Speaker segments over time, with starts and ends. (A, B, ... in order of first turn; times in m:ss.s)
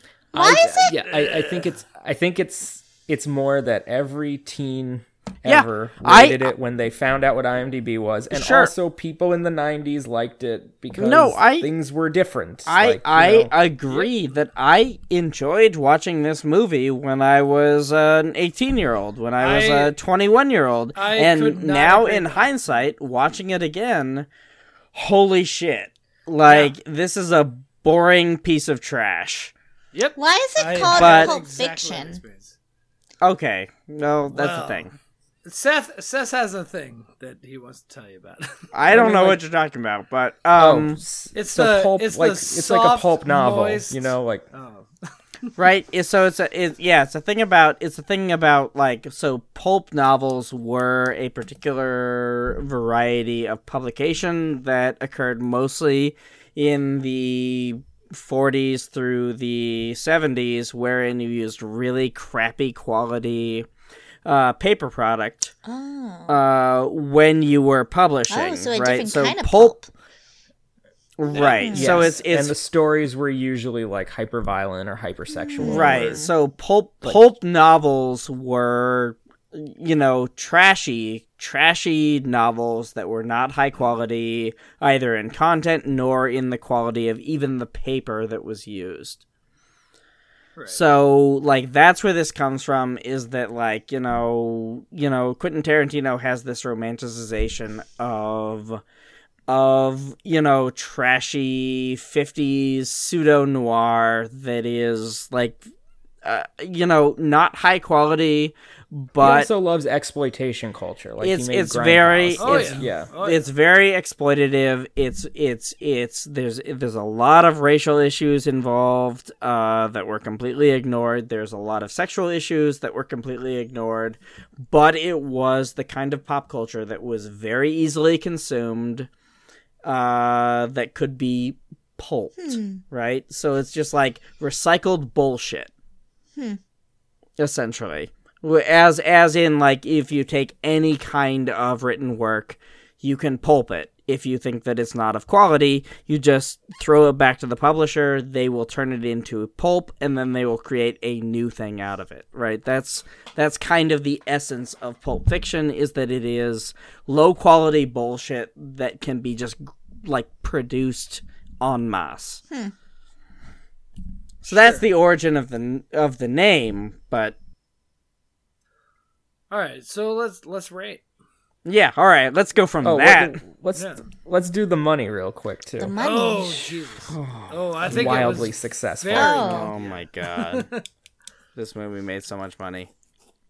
0:00.3-0:13.5 A
0:00.3-0:01.0 B
0:01.1-0:01.6 C
0:05.5-0:06.5 D
0:08.3-0:08.7 D
0:11.0-0:11.7 D
0:12.7-0:24.3 D
0:19.4-0:19.9 C
0:21.0-0:22.5 C
0:24.9-0:29.5 D
0:26.4-0:26.7 C
0:29.9-0:32.6 C
0:30.2-0:32.2 B
0:30.9-0:31.3 D
0:33.2-0:34.9 D
0:34.3-0:34.9 C
0:35.4-0:39.4 C
0:38.7-0:41.0 D
0:40.6-0:44.5 A
0:41.4-0:44.9 C
0:45.6-1:03.7 D
1:04.2-1:05.5 D
1:05.6-1:06.4 B
1:06.3-1:09.8 D
1:08.3-1:09.9 B
1:11.2-1:12.6 D
1:11.6-1:12.0 B
1:11.7-1:16.3 A
1:15.3-1:16.3 B
1:15.6-1:29.2 D
1:30.7-1:38.8 D
1:39.5-1:45.6 D
1:46.2-1:49.5 D
1:49.2-1:53.1 A
1:51.2-2:09.1 D
1:52.4-1:53.4 C
2:09.8-2:15.7 D
2:12.4-2:12.8 B
2:17.4-2:42.4 D
2:44.4-2:47.4 D
2:44.5-2:44.9 C
2:49.5-2:51.0 C
2:51.6-2:53.4 D
2:52.8-2:56.0 A
2:53.8-2:54.0 C
2:55.8-2:56.7 B
2:56.0-3:00.8 C
2:57.1-2:58.4 D
2:57.9-2:59.5 A
2:59.1-2:59.7 B
2:59.4-3:00.7 D
3:01.6-3:02.9 D